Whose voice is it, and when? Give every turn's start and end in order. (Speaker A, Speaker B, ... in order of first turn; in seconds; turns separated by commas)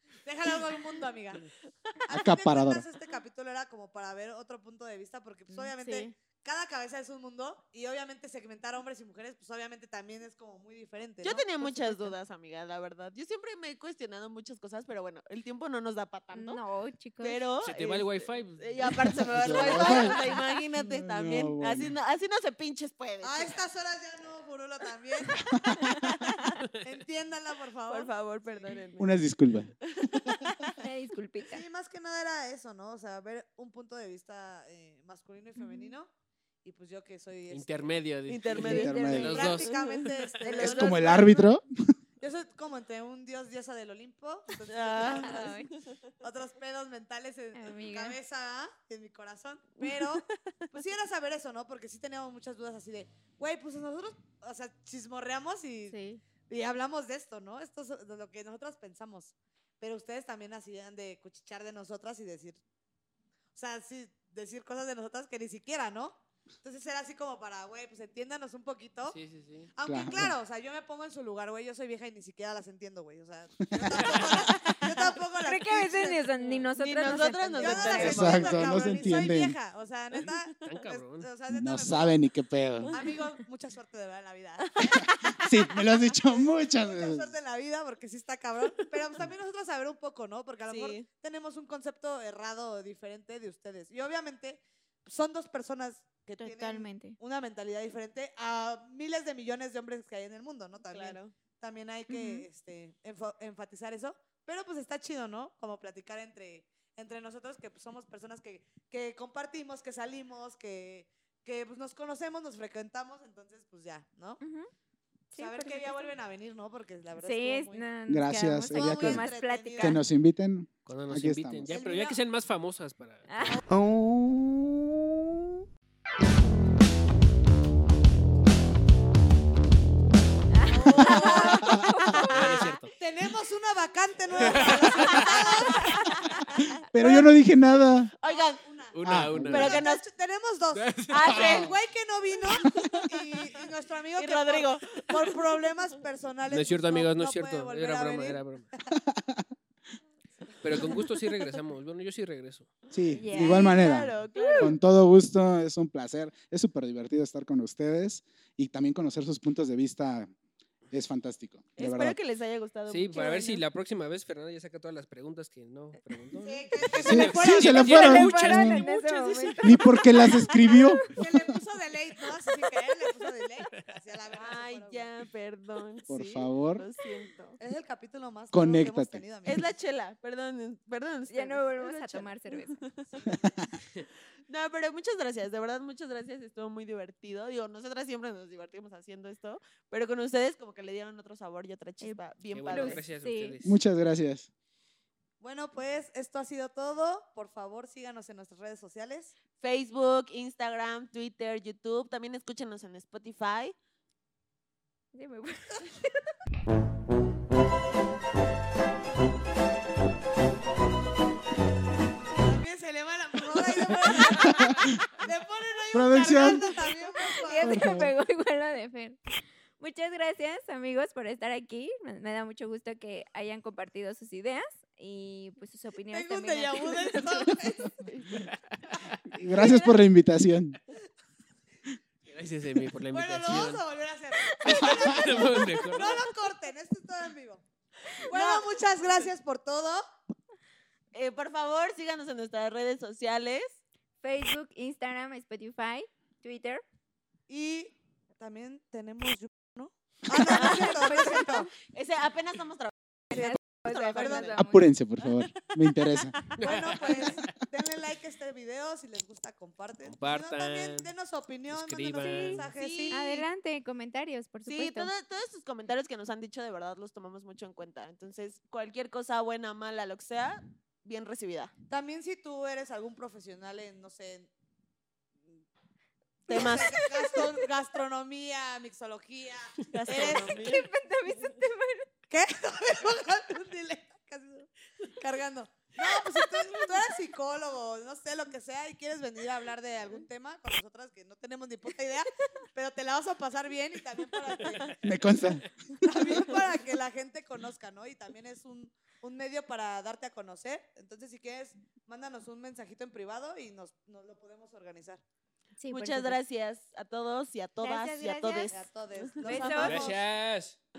Speaker A: 0.2-1.5, Speaker A: 2.1-12.1, Speaker B: 2.1-2.8, Speaker C: 5.5-6.1, Speaker D: 11.2-16.6, Speaker C: 16.3-17.4, Speaker D: 17.2-23.6, Speaker E: 17.6-18.9, Speaker B: 19.3-21.9, Speaker A: 23.2-25.5, Speaker B: 25.5-25.9, Speaker D: 26.0-26.6, Speaker A: 26.8-28.8, Speaker D: 27.9-29.1, Speaker B: 29.0-29.8, Speaker D: 29.9-30.8, Speaker C: 30.8-31.6, Speaker A: 31.5-36.1, Speaker C: 35.6-35.9, Speaker A: 36.6-37.9, Speaker E: 37.5-39.8, Speaker D: 38.3-41.0, Speaker B: 38.5-39.5, Speaker C: 38.6-39.4, Speaker A: 39.1-41.5, Speaker C: 40.4-40.9, Speaker B: 40.5-41.6, Speaker A: 42.2-45.5, Speaker D: 44.7-45.7, Speaker C: 45.0-45.7, Speaker A: 46.2-55.9, Speaker C: 47.5-48.1, Speaker D: 49.8-50.3, Speaker C: 55.9-56.2, Speaker A: 56.5-62.6, Speaker A: 63.5-69.2, Speaker E: 69.1-69.7, Speaker A: 69.7-76.2, Speaker B: 69.8-70.3, Speaker B: 73.7-74.2, Speaker E: 74.0-74.2, Speaker C: 75.4-78.1, Speaker D: 76.8-79.1, Speaker A: 77.1-82.2, Speaker B: 78.0-79.6, Speaker D: 80.2-80.6, Speaker E: 80.6-81.3, Speaker B: 81.5-82.9, Speaker D: 82.8-83.1, Speaker A: 82.9-85.0, Speaker D: 84.6-85.0, Speaker B: 84.9-87.3, Speaker A: 86.1-114.4, Speaker D: 90.7-91.0, Speaker C: 96.4-97.2, Speaker D: 100.9-101.3, Speaker C: 102.1-102.5, Speaker C: 114.4-114.7, Speaker C: 115.3-116.1, Speaker A: 115.3-117.8, Speaker C: 117.2-120.0, Speaker B: 118.1-121.7, Speaker A: 118.7-120.0, Speaker E: 120.8-123.6, Speaker A: 121.7-122.2, Speaker C: 123.3-123.6, Speaker B: 123.7-125.6, Speaker C: 130.5-132.7, Speaker D: 130.7-131.6, Speaker A: 130.8-131.7, Speaker B: 131.0-132.1, Speaker E: 132.3-132.9, Speaker A: 132.4-137.3, Speaker E: 134.4-135.4, Speaker D: 134.9-135.3, Speaker B: 136.9-138.1, Speaker D: 138.2-138.6, Speaker A: 138.2-148.8, Speaker E: 138.9-139.8, Speaker B: 139.0-139.6, Speaker D: 139.4-140.0, Speaker E: 140.7-141.6, Speaker D: 141.1-141.7, Speaker B: 141.3-141.7, Speaker D: 144.2-145.8, Speaker E: 146.5-148.7, Speaker B: 148.9-149.5, Speaker E: 150.6-152.7, Speaker A: 150.7-151.0, Speaker B: 152.9-160.3, Speaker C: 153.1-153.8, Speaker D: 153.3-154.7, Speaker C: 154.3-154.7, Speaker B: 160.9-162.2, Speaker D: 161.8-163.6, Speaker E: 162.9-170.0, Speaker A: 166.3-168.1, Speaker B: 167.0-168.8, Speaker C: 167.7-170.9, Speaker B: 169.6-171.5, Speaker A: 171.2-175.1, Speaker D: 174.3-177.6, Speaker B: 176.1-176.8, Speaker A: 177.6-179.7, Speaker B: 178.5-179.2, Speaker D: 179.4-183.2, Speaker C: 181.3-182.8, Speaker A: 183.1-183.4, Speaker B: 183.3-183.7, Speaker D: 184.5-193.0, Speaker E: 192.5-193.8, Speaker C: 192.7-193.6, Speaker B: 193.6-194.5, Speaker A: 195.4-199.3, Speaker D: 199.6-203.7, Speaker C: 205.1-206.0, Speaker A: 212.3-217.9, Speaker B: 214.1-214.9, Speaker B: 215.9-216.7, Speaker C: 217.4-219.2, Speaker B: 217.6-218.1, Speaker C: 219.8-227.5, Speaker A: 226.1-228.3, Speaker E: 228.3-229.2, Speaker B: 229.3-230.8, Speaker C: 229.5-229.9, Speaker E: 232.2-233.8, Speaker A: 233.1-237.6, Speaker C: 234.4-235.8, Speaker E: 234.6-236.2, Speaker A: 238.3-240.0, Speaker D: 238.3-238.7, Speaker D: 241.1-243.8, Speaker C: 244.2-246.8, Speaker A: 247.5-251.7, Speaker C: 250.4-251.7, Speaker D: 250.4-252.9, Speaker A: 253.3-254.6, Speaker C: 253.3-254.9, Speaker D: 254.1-254.5, Speaker B: 254.6-256.4, Speaker D: 255.2-256.6, Speaker E: 256.6-257.6, Speaker A: 256.6-263.4, Speaker E: 260.0-261.1, Speaker E: 261.7-262.7, Speaker C: 262.2-265.1, Speaker D: 262.7-263.4, Speaker D: 264.7-271.7, Speaker A: 271.9-274.5, Speaker A: 276.5-280.6, Speaker D: 276.5-277.0, Speaker C: 276.5-277.6, Speaker D: 279.9-280.9, Speaker C: 280.1-282.1, Speaker A: 282.3-295.0, Speaker B: 295.0-296.0, Speaker A: 296.0-305.2, Speaker C: 305.8-306.4, Speaker D: 305.9-310.0, Speaker C: 307.8-308.7, Speaker A: 308.7-310.3, Speaker C: 309.4-310.1, Speaker E: 309.8-310.8